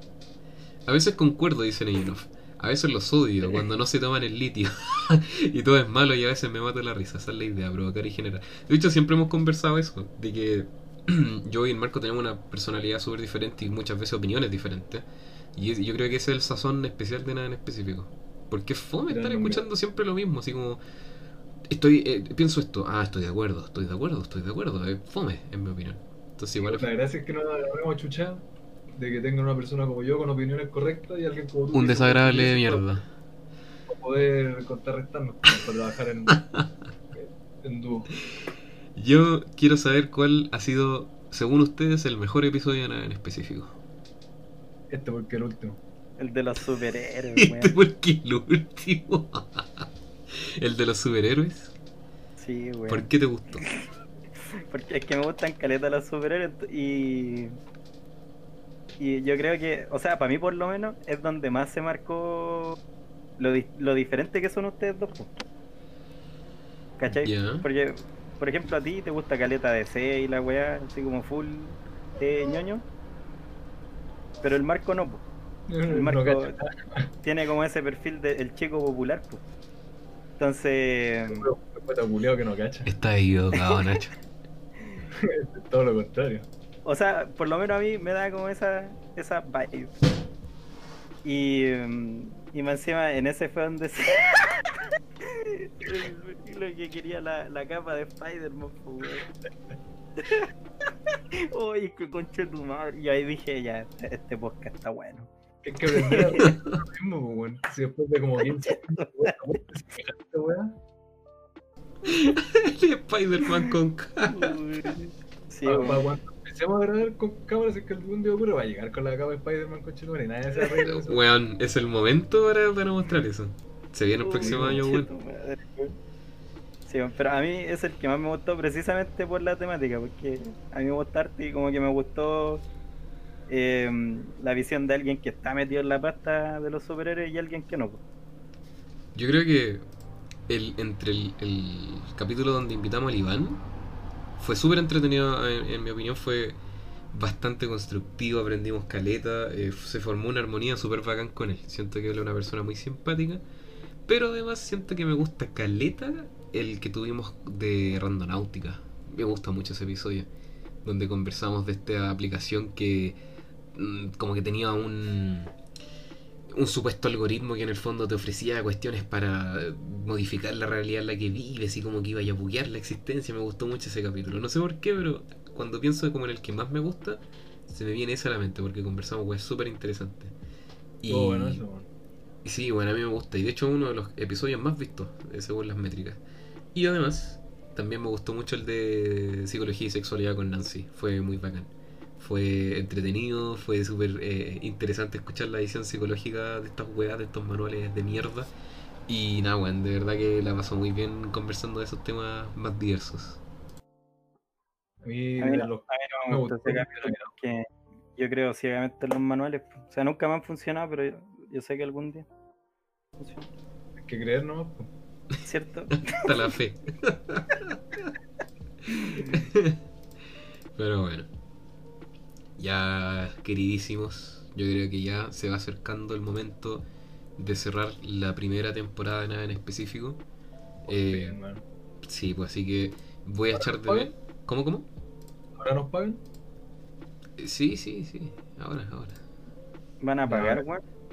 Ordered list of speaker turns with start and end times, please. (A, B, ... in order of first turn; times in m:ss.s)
0:00.8-0:20.8 A
0:19.1-0:19.6 B
0:21.7-0:26.8 A
0:26.6-0:33.0 B
0:31.7-0:33.1 A
0:33.9-0:36.4 B
0:37.1-0:38.1 B
0:39.0-0:43.8 A
0:44.9-0:45.8 B
0:46.2-0:47.7 C
0:47.4-0:49.9 A
0:50.6-0:51.7 A
0:52.4-0:53.8 C
0:52.9-0:53.6 A
0:54.5-0:57.6 C
0:59.0-1:02.8 C
1:03.4-1:05.4 C
1:07.0-1:12.8 C
1:07.1-1:07.7 A
1:14.4-1:15.2 C
1:15.7-1:17.1 B
1:15.9-1:16.5 C
1:17.2-1:19.4 C
1:20.4-1:21.5 C
1:21.2-1:22.9 B
1:22.8-1:24.1 A
1:23.5-1:24.0 C
1:25.1-1:26.5 B
1:26.8-1:30.0 C
1:31.2-1:39.3 C
1:40.2-1:40.5 C
1:41.1-1:45.3 C
1:45.6-1:50.8 B
1:45.9-1:46.5 C
1:46.4-1:46.8 A
1:48.6-1:49.3 C
1:52.0-1:54.5 A
1:54.3-1:56.0 C
1:55.6-2:01.2 B
2:00.8-2:05.1 A
2:04.2-2:06.0 C
2:04.4-2:04.8 B
2:06.9-2:12.6 C
2:13.5-2:18.0 C
2:19.1-2:19.8 A
2:20.5-2:23.6 A
2:24.4-2:26.6 A
2:27.1-2:33.4 A
2:34.1-2:40.3 A
2:40.8-2:43.2 A
2:43.7-2:45.5 A
2:46.5-3:00.3 A
3:01.0-3:01.6 A
3:01.1-3:01.9 B
3:02.4-3:06.2 A
3:06.7-3:18.5 A
3:19.1-3:23.4 A
3:25.0-3:27.3 B
3:25.4-3:32.3 C
3:33.2-3:33.4 C
3:34.0-3:34.9 B
3:35.4-3:36.4 C
3:35.9-3:38.1 A
3:38.9-3:39.4 C
3:39.1-3:39.8 A
3:40.7-3:41.3 A
3:42.6-3:46.8 A
3:47.4-3:50.2 A
3:50.8-3:51.6 B
3:50.9-3:51.4 A
3:52.0-3:54.9 A
3:53.5-3:54.1 B
3:55.6-3:56.2 B
3:57.4-3:59.2 A
4:00.0-4:00.8 C
4:00.2-4:00.6 B